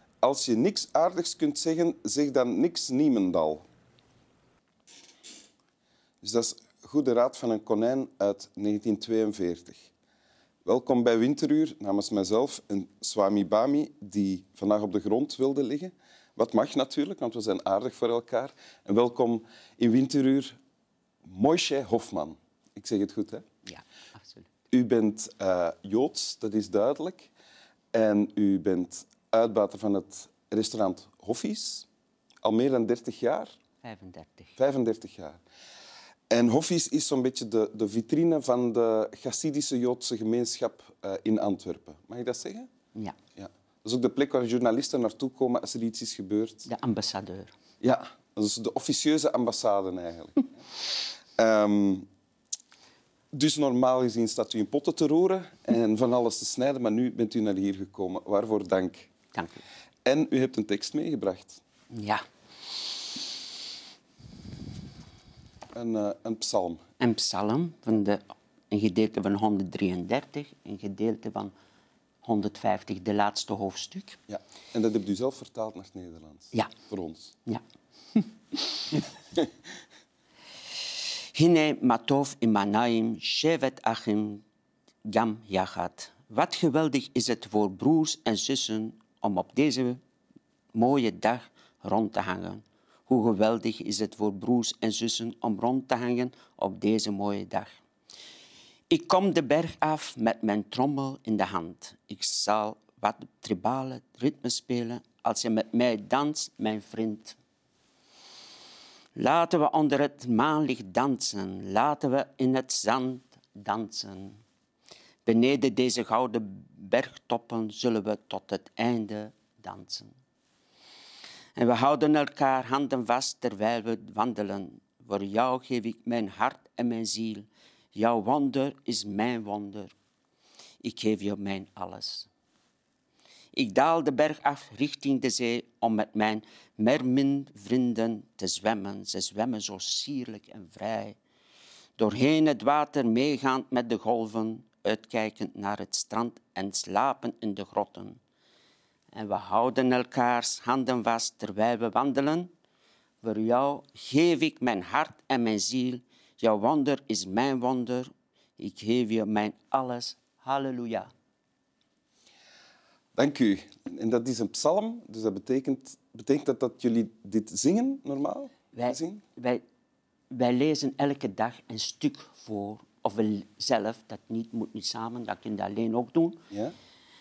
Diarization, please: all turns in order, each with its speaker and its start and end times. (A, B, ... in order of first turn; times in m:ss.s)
0:00.2-0:03.6 A
0:06.2-0:09.9 A
0:10.6-0:20.6 A
0:21.2-0:23.4 A
0:23.6-0:24.5 B
0:24.7-0:27.3 A
0:27.9-0:31.9 A
0:32.4-0:33.5 A
0:33.8-0:34.6 B
0:34.6-0:35.4 A
0:36.3-0:42.7 A
0:43.4-0:46.7 A
0:46.7-0:47.5 B
0:47.8-0:50.8 A
0:51.4-0:52.1 A
0:53.3-0:59.1 A
0:59.3-0:59.6 B
1:00.1-1:01.6 A
1:01.9-1:02.2 B
1:05.7-1:06.8 A
1:07.0-1:11.5 B
1:12.2-1:14.2 B
1:14.3-1:17.4 A
1:18.2-1:19.0 B
1:21.3-1:24.4 B
1:25.0-1:30.0 B
1:30.7-1:37.7 B
1:38.9-1:47.4 B
1:49.2-1:54.4 B
1:55.2-2:00.1 B
2:01.6-2:09.9 B
2:10.8-2:12.3 B
2:13.5-2:21.2 B
2:22.0-2:28.2 B
2:29.1-2:32.5 B
2:33.2-2:41.1 B
2:43.2-2:49.2 A
2:48.7-2:49.6 B
2:50.3-2:56.4 B